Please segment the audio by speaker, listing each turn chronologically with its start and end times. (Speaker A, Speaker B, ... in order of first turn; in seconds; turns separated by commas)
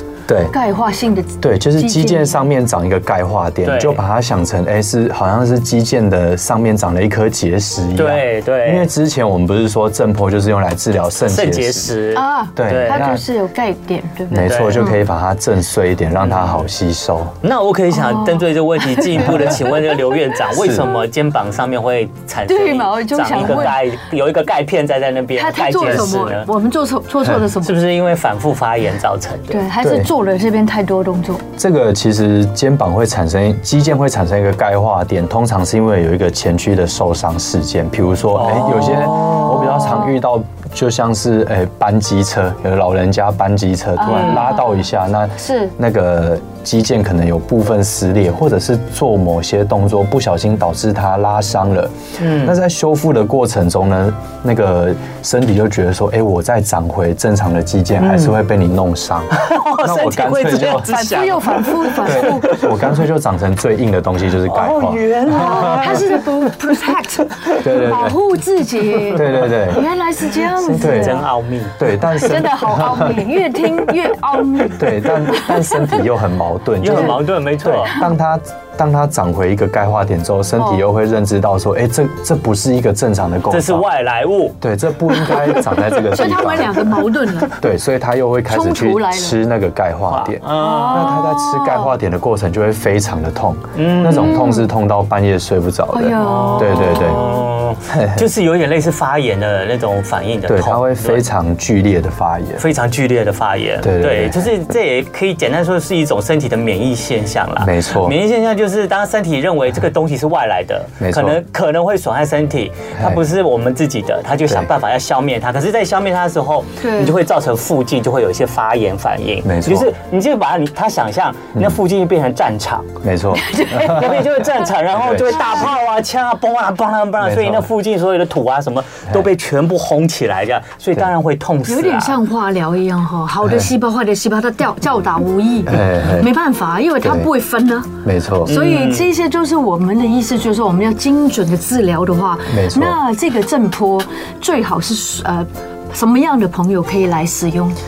Speaker A: 0.3-0.5, Speaker B: 0.5-2.4, Speaker A: 1.4-11.9, Speaker C: 3.6-4.0, Speaker C: 7.9-8.9, Speaker C: 11.2-13.2, Speaker B: 12.1-15.0, Speaker A: 12.6-13.2, Speaker A: 14.3-17.3, Speaker C: 14.4-14.8, Speaker C: 16.2-16.7, Speaker C: 17.4-26.5, Speaker B: 17.9-20.4, Speaker A: 20.5-20.9, Speaker B: 22.5-23.8, Speaker B: 25.4-27.8, Speaker C: 27.6-29.6, Speaker B: 29.5-31.4, Speaker A: 29.8-30.1, Speaker A: 31.6-61.0, Speaker C: 38.3-40.1, Speaker B: 44.0-44.8, Speaker C: 44.1-44.5, Speaker B: 45.4-45.7, Speaker C: 52.2-52.5, Speaker C: 58.0-58.4, Speaker C: 59.3-62.9, Speaker B: 60.8-62.5, Speaker A: 62.0-66.0, Speaker C: 64.4-66.5, Speaker B: 65.3-71.2, Speaker A: 67.6-68.2, Speaker C: 69.0-69.3, Speaker A: 69.1-69.8, Speaker C: 70.4-72.4, Speaker A: 70.7-73.2, Speaker B: 72.1-76.0, Speaker A: 74.8-83.9, Speaker C: 76.8-78.0, Speaker B: 80.6-80.8, Speaker C: 83.5-84.5, Speaker A: 84.6-86.9, Speaker C: 85.3-86.2, Speaker B: 86.1-87.6, Speaker A: 87.5-97.3, Speaker B: 88.5-89.4, Speaker C: 90.1-91.3, Speaker B: 90.6-91.9, Speaker C: 93.8-94.5, Speaker B: 94.2-94.7, Speaker B: 95.9-97.4, Speaker C: 96.2-101.2, Speaker A: 97.9-98.2, Speaker A: 100.5-102.6, Speaker C: 102.6-122.9, Speaker A: 103.8-104.5, Speaker A: 107.6-108.2, Speaker A: 111.0-111.4, Speaker A: 113.0-113.2, Speaker B: 116.8-117.1, Speaker A: 119.4-119.9, Speaker A: 121.5-121.8, Speaker A: 123.0-124.3, Speaker B: 123.3-124.1, Speaker C: 123.7-132.2, Speaker A: 124.9-125.3, Speaker A: 127.2-127.7, Speaker B: 131.7-137.9, Speaker A: 133.4-133.7, Speaker A: 135.7-136.3, Speaker A: 137.0-137.3, Speaker A: 138.0-138.5, Speaker B: 138.4-147.8, Speaker C: 138.4-139.1, Speaker A: 142.5-143.0